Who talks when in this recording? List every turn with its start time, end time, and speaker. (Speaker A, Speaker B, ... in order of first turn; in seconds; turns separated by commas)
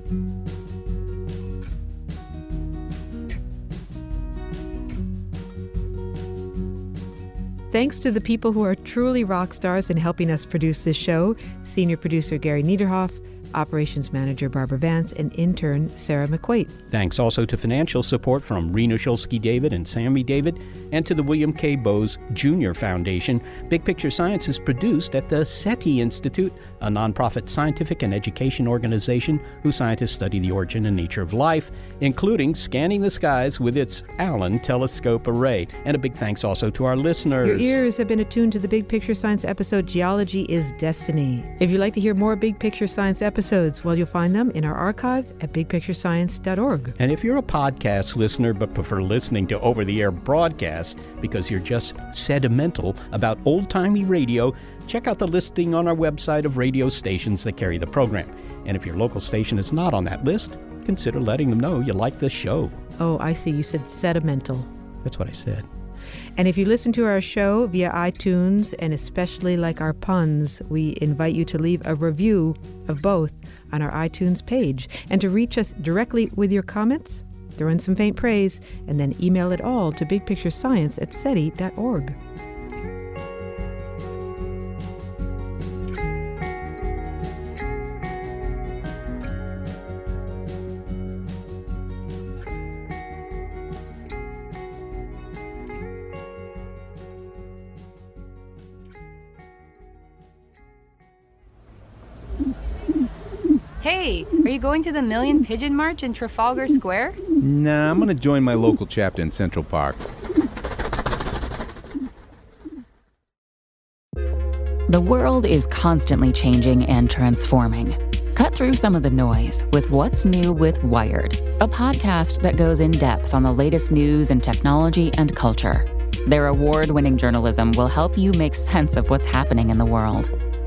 Speaker A: 7.7-16.7, Speaker B: 16.9-37.7, Speaker A: 37.4-46.9, Speaker B: 47.0-62.8, Speaker A: 63.0-64.7, Speaker B: 65.0-65.7, Speaker A: 66.4-82.2, Speaker C: 103.8-107.2, Speaker D: 107.4-110.0, Speaker E: 114.9-130.3